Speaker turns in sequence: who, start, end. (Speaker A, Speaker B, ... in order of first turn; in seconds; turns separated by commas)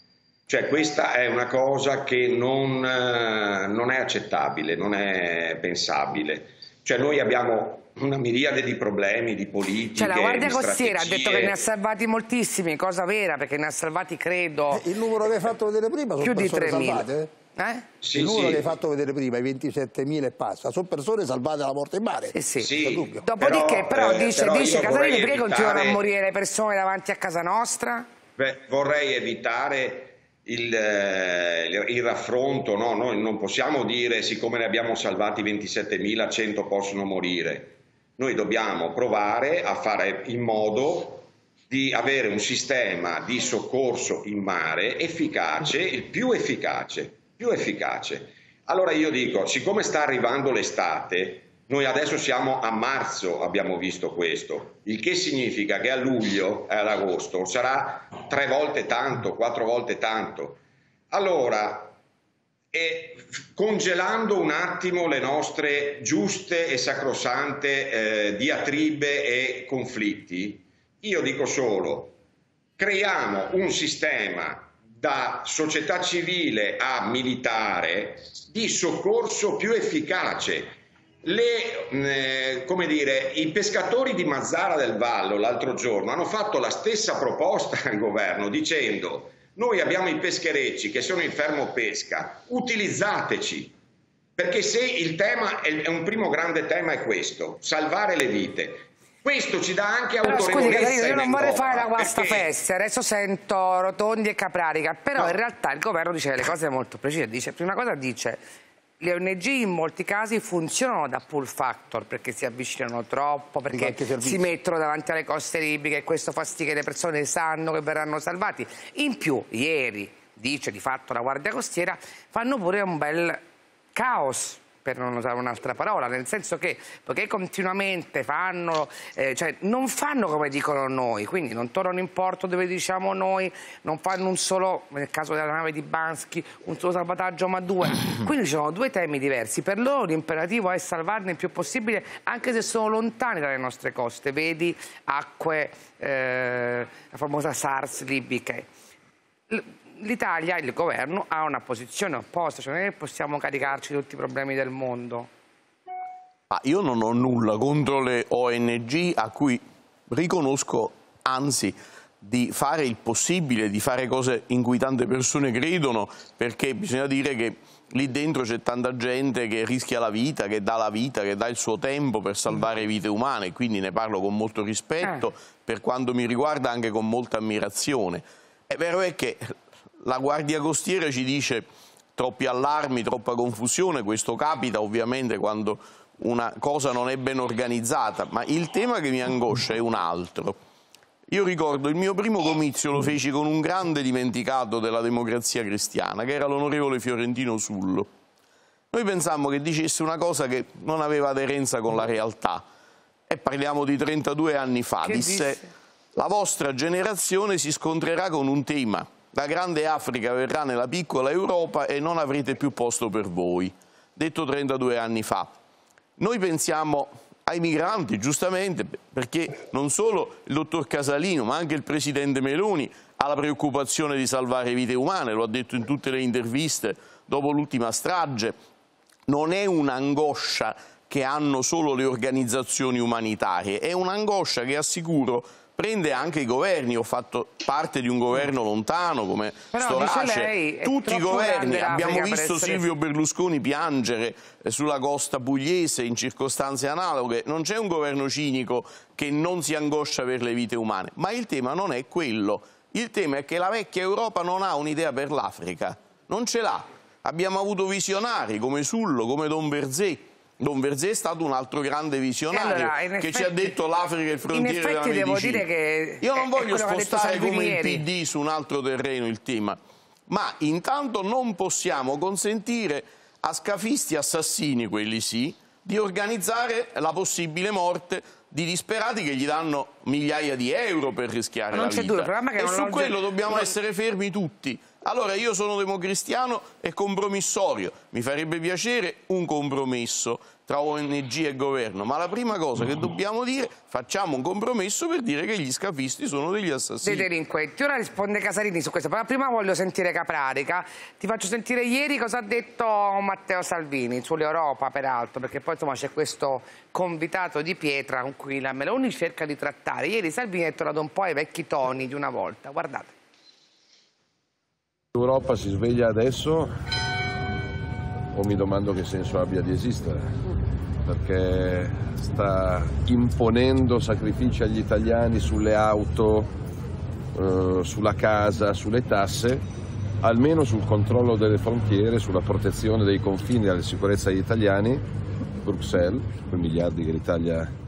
Speaker A: 0.5-11.6, Speaker B: 10.0-14.8, Speaker C: 14.7-17.3, Speaker B: 16.2-17.9, Speaker A: 18.0-18.7, Speaker C: 18.1-23.2, Speaker B: 22.3-22.7, Speaker A: 22.6-26.0, Speaker B: 23.2-28.1, Speaker A: 28.4-60.6, Speaker A: 61.1-62.0, Speaker A: 62.7-72.2, Speaker A: 72.8-93.8, Speaker A: 94.4-102.5, Speaker B: 100.2-108.4, Speaker B: 109.0-123.4, Speaker C: 113.7-114.5, Speaker B: 124.0-148.7, Speaker B: 149.5-155.3, Speaker D: 156.5-190.6, Speaker D: 191.3-198.1, Speaker D: 198.9-202.7, Speaker D: 203.3-205.6, Speaker B: 205.0-205.7, Speaker D: 206.2-215.6, Speaker D: 216.2-228.6, Speaker D: 229.3-265.6, Speaker B: 239.7-242.8, Speaker B: 262.5-263.7, Speaker B: 264.5-268.0, Speaker D: 266.2-297.3, Speaker B: 281.7-283.7, Speaker B: 297.0-313.1, Speaker E: 315.2-316.7, Speaker E: 318.4-320.4, Speaker E: 321.1-326.5, Speaker E: 327.4-329.6, Speaker E: 330.2-335.0, Speaker E: 335.6-337.7